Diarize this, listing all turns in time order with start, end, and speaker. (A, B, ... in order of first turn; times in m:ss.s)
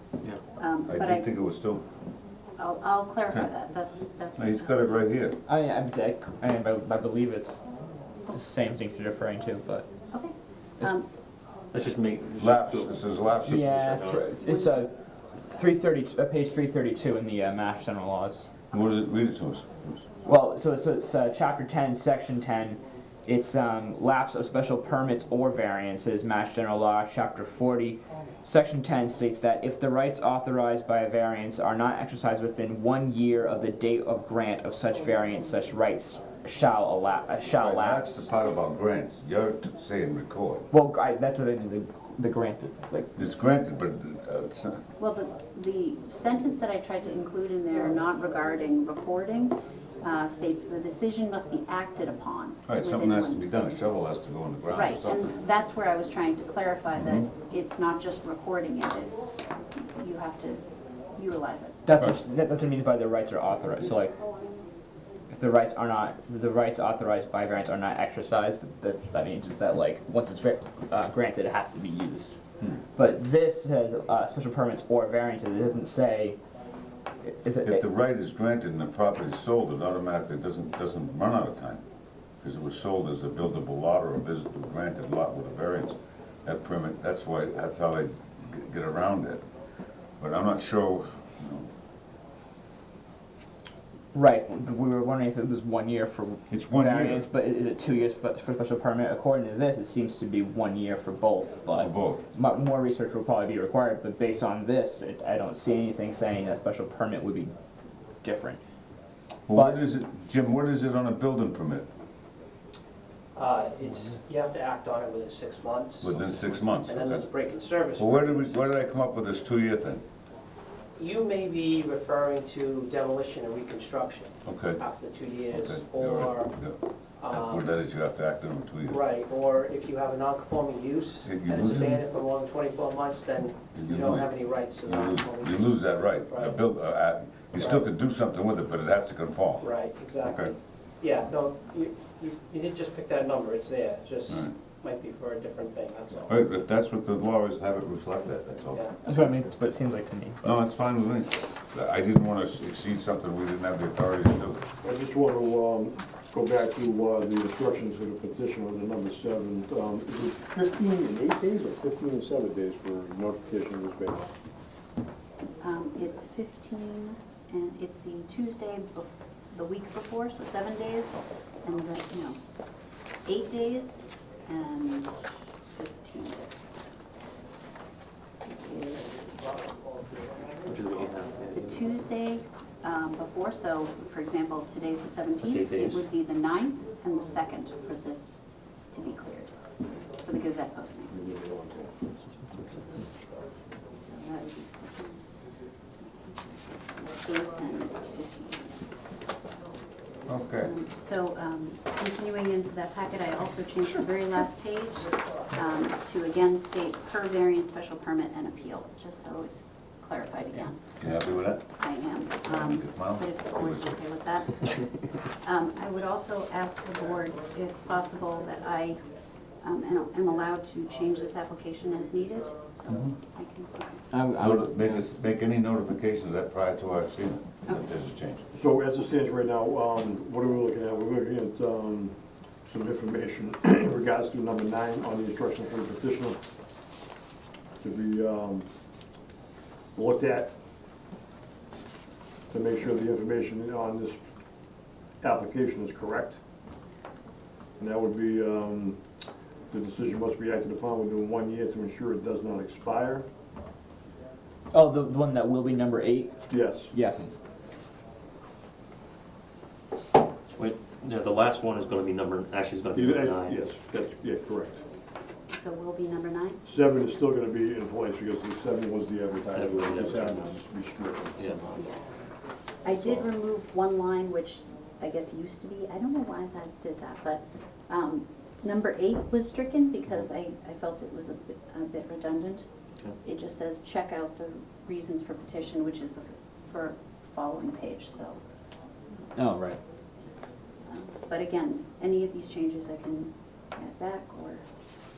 0:00.6-0:01.3 A
0:00.9-0:01.8 B
0:02.6-0:05.0 A
0:04.4-0:05.4 B
0:05.5-0:07.6 C
0:08.3-0:09.9 C
0:10.1-0:11.0 A
0:11.7-0:13.1 D
0:12.4-0:14.3 B
0:13.4-0:14.9 C
0:13.8-0:14.2 D
0:15.4-0:18.5 C
0:18.7-0:20.0 B
0:20.2-0:38.3 C
0:37.6-0:40.6 B
0:40.7-0:43.1 C
0:43.2-0:44.8 B
0:45.0-0:53.8 A
0:52.6-0:55.3 B
0:54.7-1:00.6 A
0:57.0-0:57.2 B
1:01.1-1:01.8 A
1:01.8-1:04.1 C
1:05.3-1:12.4 C
1:12.9-1:16.4 C
1:17.2-1:17.8 C
1:17.6-1:21.8 B
1:22.4-1:29.4 B
1:30.2-1:31.7 B
1:34.1-1:47.5 C
1:36.5-1:37.2 B
1:41.7-1:42.2 B
1:48.2-1:48.6 C
1:49.5-1:51.9 B
1:49.5-1:49.8 C
1:53.4-1:58.8 E
1:56.0-1:57.2 B
1:58.0-2:00.0 B
2:01.0-2:06.6 E
2:04.4-2:04.8 B
2:05.5-2:06.8 B
2:07.2-2:07.6 E
2:07.3-2:09.0 B
2:08.9-2:16.5 E
2:11.2-2:12.0 B
2:13.7-2:14.3 B
2:14.8-2:19.7 B
2:17.6-2:17.8 E
2:19.6-2:26.4 E
2:20.2-2:20.5 B
2:26.3-2:28.8 B
2:29.0-2:30.5 C
2:30.4-2:34.6 B
2:34.8-2:44.3 F
2:45.6-2:52.4 A
2:53.2-2:56.8 A
2:58.4-2:59.3 A
3:00.7-3:01.9 D
3:01.6-3:09.5 A
3:05.4-3:06.0 D
3:10.2-3:11.3 A
3:11.3-3:11.9 F
3:14.0-3:15.3 A
3:16.0-3:18.9 A
3:20.3-3:20.7 B
3:20.6-3:30.9 A
3:31.0-3:31.7 B
3:31.8-3:34.8 A
3:32.4-3:34.0 B
3:35.4-3:39.0 A
3:39.6-3:44.0 A
3:44.1-3:44.6 C
3:44.4-3:48.4 B
3:48.5-3:52.1 F
3:52.7-3:56.4 F
3:57.8-3:58.7 F
3:59.9-4:00.5 F
4:02.5-4:04.2 F
4:05.2-4:06.4 F
4:07.8-4:09.0 F
4:09.7-4:13.2 F
4:14.7-4:17.3 C
4:16.5-4:16.9 F
4:20.6-4:23.6 D
4:22.9-4:24.8 F
4:25.5-4:26.6 A
4:26.6-4:31.8 F
4:29.5-4:30.5 D
4:31.7-4:32.2 A
4:32.8-4:42.6 A
4:43.2-4:48.4 A
4:49.4-4:49.8 D
4:50.8-4:54.6 A